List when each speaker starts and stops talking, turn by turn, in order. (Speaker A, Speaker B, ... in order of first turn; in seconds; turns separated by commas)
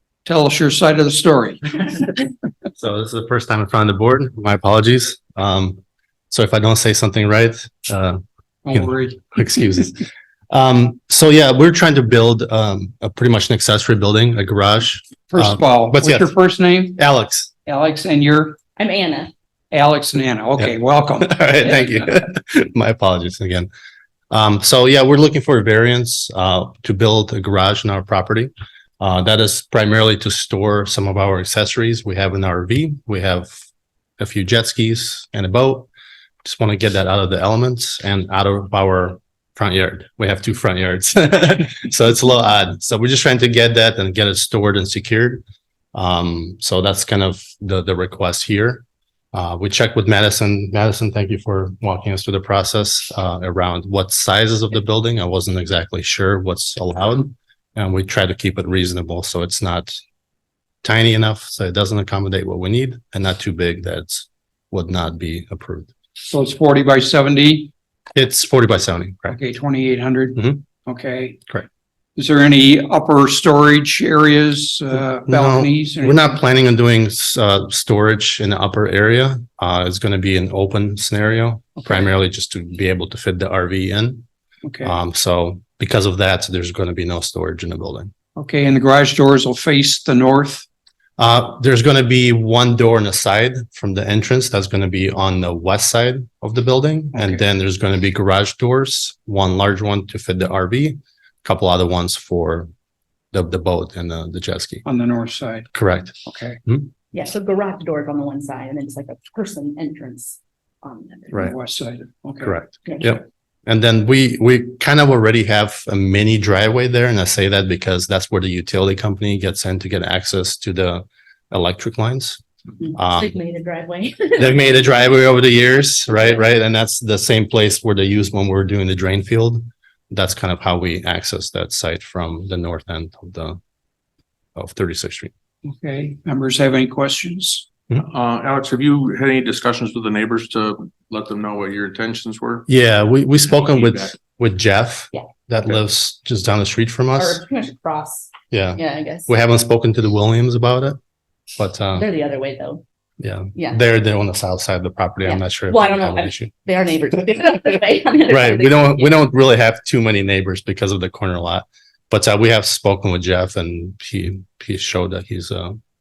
Speaker A: 0.2-2.1, Speaker B: 2.7-5.8, Speaker B: 6.3-8.2, Speaker A: 8.6-9.3, Speaker B: 8.7-16.4, Speaker A: 15.3-17.0, Speaker B: 17.0-17.5, Speaker A: 17.6-18.6, Speaker C: 18.8-19.3, Speaker A: 19.7-22.1, Speaker B: 21.2-23.7, Speaker B: 24.3-33.6, Speaker B: 34.2-35.9, Speaker B: 36.4-45.4, Speaker B: 45.9-60.0, Speaker B: 60.8-65.9, Speaker A: 66.2-67.7, Speaker B: 68.1-69.3, Speaker A: 69.3-71.4, Speaker A: 72.2-76.2, Speaker B: 75.2-84.2, Speaker A: 84.6-84.9, Speaker B: 84.8-88.1, Speaker A: 88.3-90.7, Speaker B: 91.2-102.7, Speaker A: 97.1-97.4, Speaker B: 103.3-104.8, Speaker A: 104.8-105.7, Speaker B: 105.7-106.9, Speaker A: 106.2-106.6, Speaker C: 107.1-111.3, Speaker A: 111.4-112.6, Speaker B: 112.4-122.4, Speaker C: 122.8-125.2, Speaker B: 122.9-123.4, Speaker B: 124.4-133.6, Speaker B: 134.6-135.3, Speaker A: 135.6-137.7, Speaker D: 137.9-142.7, Speaker B: 142.7-147.4, Speaker D: 143.6-144.2, Speaker C: 147.2-149.3, Speaker B: 148.5-151.0, Speaker B: 151.6-152.1, Speaker C: 151.9-152.8, Speaker B: 153.2-156.5, Speaker C: 153.6-153.8, Speaker C: 155.2-159.2, Speaker B: 158.3-165.8